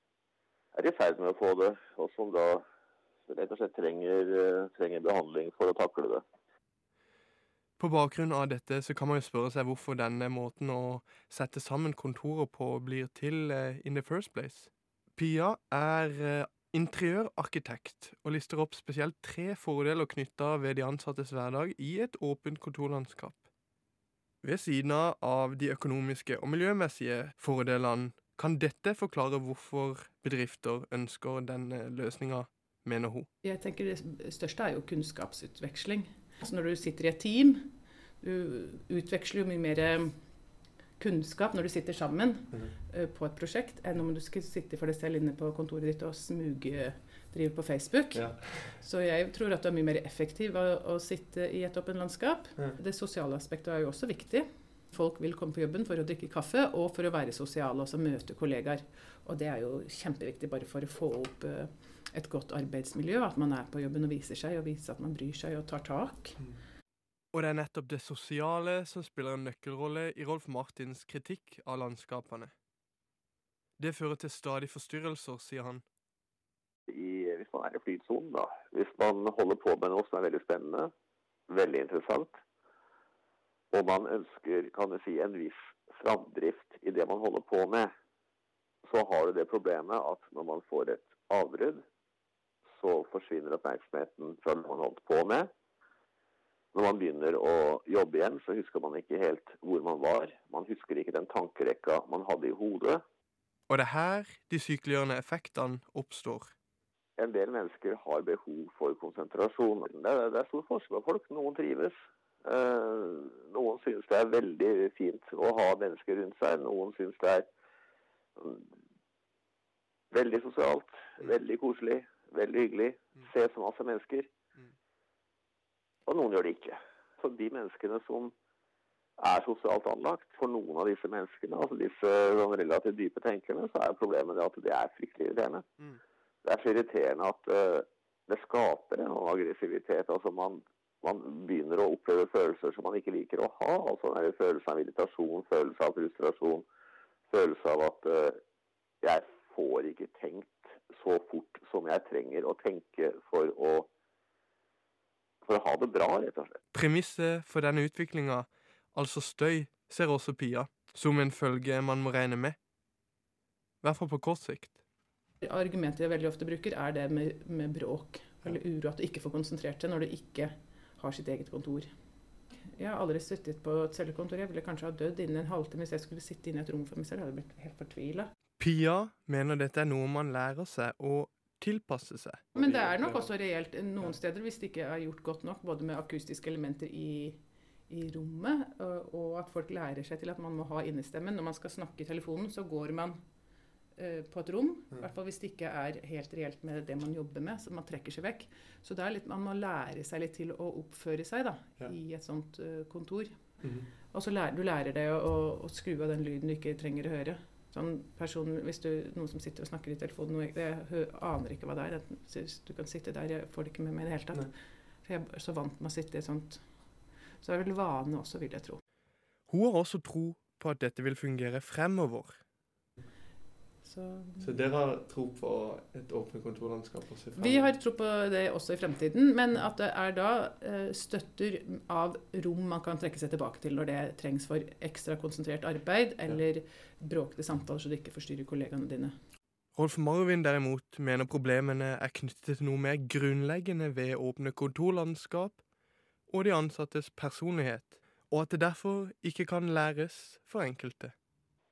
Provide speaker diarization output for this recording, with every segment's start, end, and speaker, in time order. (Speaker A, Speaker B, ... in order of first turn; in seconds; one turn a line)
Speaker A: 0.8-2.6
Speaker A: 3.3-6.2
Speaker B: 7.8-23.4
Speaker B: 24.4-33.3
Speaker C: 33.4-66.4
Speaker B: 48.1-48.7
Speaker B: 67.3-72.5
Speaker B: 73.8-75.8
Speaker A: 76.9-80.9
Speaker A: 81.5-82.4
Speaker A: 83.7-87.9
Speaker A: 88.9-91.8
Speaker A: 92.8-95.5
Speaker A: 96.7-103.0
Speaker B: 103.7-106.5
Speaker A: 107.2-117.5
Speaker A: 118.4-118.6
Speaker A: 120.1-124.3
Speaker A: 126.1-128.3
Speaker A: 129.2-135.7
Speaker A: 136.4-146.7
Speaker A: 147.3-148.4
Speaker A: 149.0-153.9
Speaker A: 155.4-156.5
Speaker B: 156.7-162.6
Speaker B: 163.8-164.8
Speaker C: 165.4-178.3
Speaker B: 178.6-182.5
Speaker C: 182.5-218.8
Speaker B: 219.5-222.4
Speaker C: 223.8-224.5
Speaker B: 224.4-227.8
Speaker C: 227.3-239.2
Speaker B: 239.8-245.6
Speaker B: 246.3-251.1